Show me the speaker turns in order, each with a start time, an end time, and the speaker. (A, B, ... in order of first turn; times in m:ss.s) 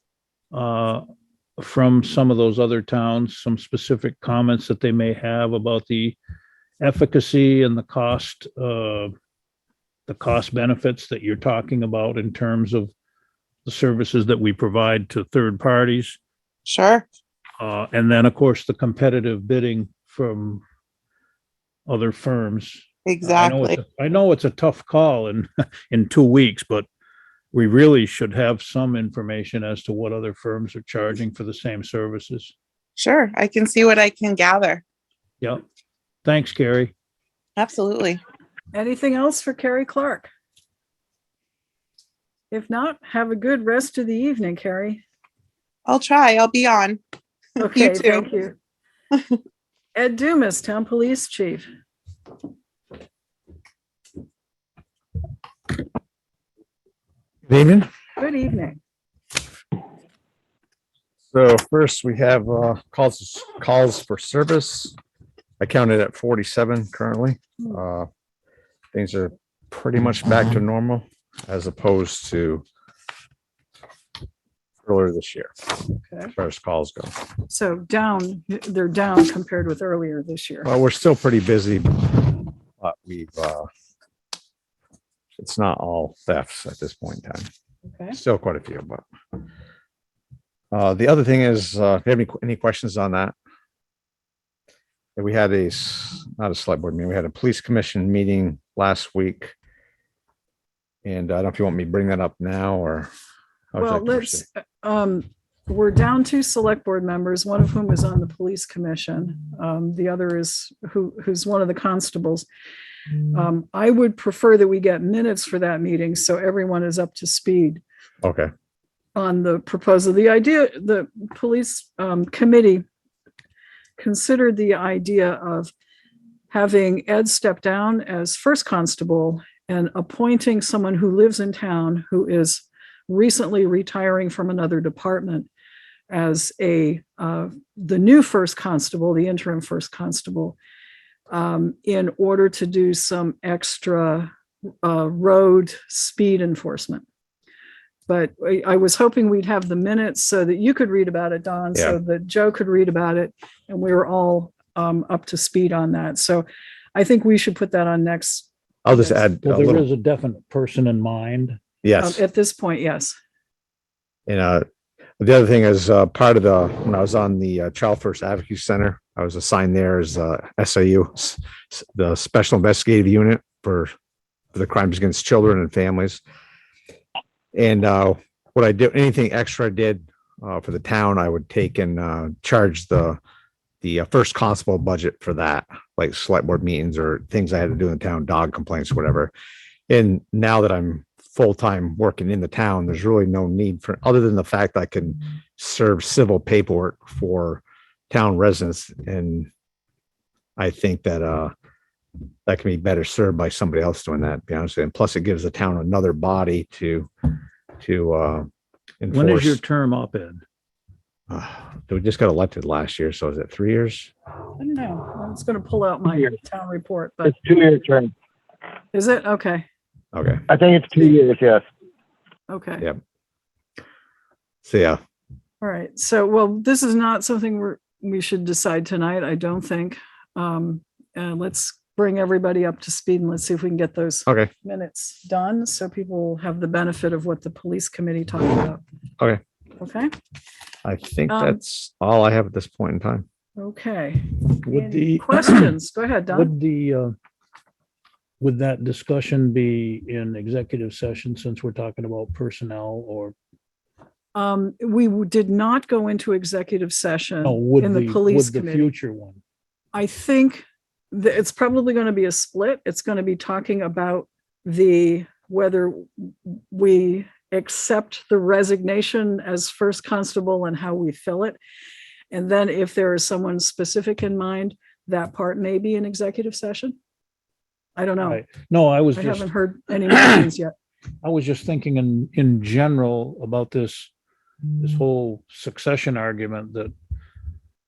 0:00.5-0:01.0 A
0:01.6-0:06.2 A
0:06.8-0:09.1 A
0:10.1-0:12.9 A
0:13.6-0:16.2 A
0:16.7-0:17.0 B
0:17.6-0:20.6 A
0:21.9-0:26.9 A
0:23.0-0:23.8 B
0:27.5-0:32.5 A
0:33.0-0:34.8 B
0:36.2-0:36.9 A
0:37.6-0:38.2 B
0:38.7-0:40.3 C
0:42.5-0:45.0 C
0:45.9-0:47.0 B
0:47.6-0:48.6 C
0:47.7-0:48.2 B
0:49.9-0:51.7 C
0:57.5-0:57.9 D
0:58.2-0:58.8 C
1:01.3-1:05.0 D
1:05.6-1:08.1 D
1:08.9-1:12.6 D
1:14.8-1:15.7 D
1:16.0-1:16.3 C
1:16.3-1:17.2 D
1:17.5-1:20.7 C
1:20.6-1:23.7 D
1:25.4-1:27.5 D
1:27.9-1:28.2 C
1:28.1-1:29.0 D
1:30.7-1:33.3 D
1:35.2-1:39.5 D
1:41.0-1:43.1 D
1:43.7-1:44.4 D
1:43.8-1:52.5 C
1:53.3-1:57.8 C
1:58.2-1:58.5 D
1:59.1-2:02.8 C
2:04.0-2:05.7 C
2:06.5-2:15.5 C
2:16.1-2:20.6 C
2:21.3-2:24.3 C
2:24.8-2:27.0 C
2:28.1-2:39.2 C
2:38.8-2:39.8 D
2:39.4-2:41.6 A
2:41.8-2:42.2 D
2:42.0-2:43.1 C
2:44.3-2:44.6 D
2:45.2-2:53.9 D
2:54.5-2:56.2 D
2:57.5-3:03.2 D
3:03.8-3:09.3 D
3:09.9-3:19.5 D
3:20.6-3:21.5 D
3:22.4-3:27.1 D
3:27.8-3:28.5 D
3:29.0-3:29.6 D
3:29.1-3:30.4 A
3:31.3-3:34.1 D
3:34.6-3:37.4 C
3:37.2-3:38.1 E
3:38.9-3:39.7 C
3:40.1-3:40.4 D
3:40.5-3:41.6 E
3:42.5-3:42.9 C
3:44.6-3:45.0 D
3:45.6-3:58.8 C
3:59.8-4:00.1 C
4:00.8-4:03.2 D
4:01.3-4:01.6 C
4:03.6-4:06.5 C
4:04.6-4:05.7 A
4:06.3-4:07.1 A
4:08.4-4:13.3 A
4:14.3-4:18.9 C
4:17.4-4:19.4 A
4:19.9-4:31.6 C
4:32.3-4:37.0 C
4:38.0-4:38.5 C
4:38.2-4:39.4 A
4:39.1-4:40.7 C
4:41.2-4:44.1 A
4:44.8-4:46.9 A